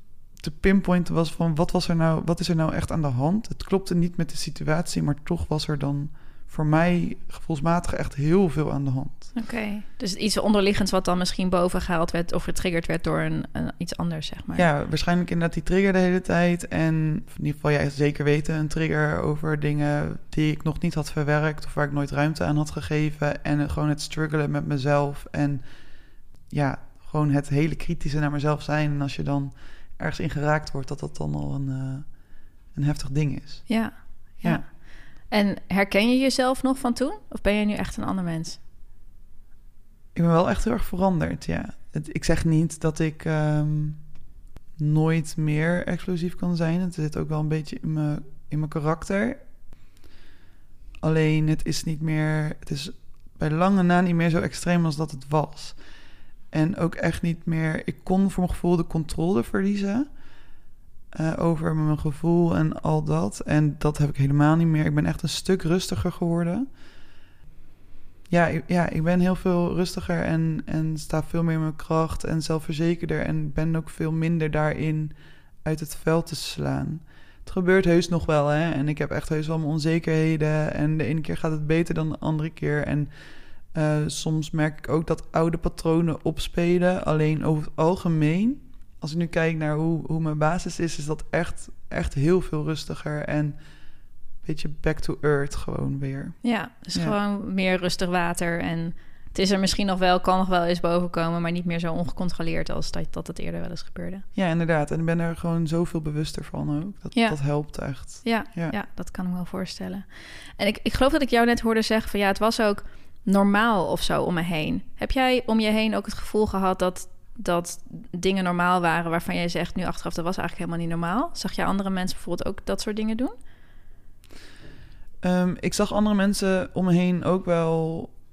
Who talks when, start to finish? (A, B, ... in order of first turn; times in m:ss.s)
0:00.3-0:09.4 A
0:09.4-0:14.7 B
0:14.6-0:25.8 A
0:26.5-0:33.8 A
0:33.7-0:38.6 B
0:40.2-0:44.1 A
0:44.8-0:49.4 A
0:51.0-0:55.8 A
0:56.5-1:00.1 A
1:01.1-1:06.7 A
1:08.3-1:23.1 A
1:23.7-1:33.6 A
1:34.4-1:37.2 A
1:36.4-1:44.2 B
1:44.4-1:48.8 A
1:47.2-1:50.1 B
1:50.6-2:03.4 B
2:05.2-2:08.2 A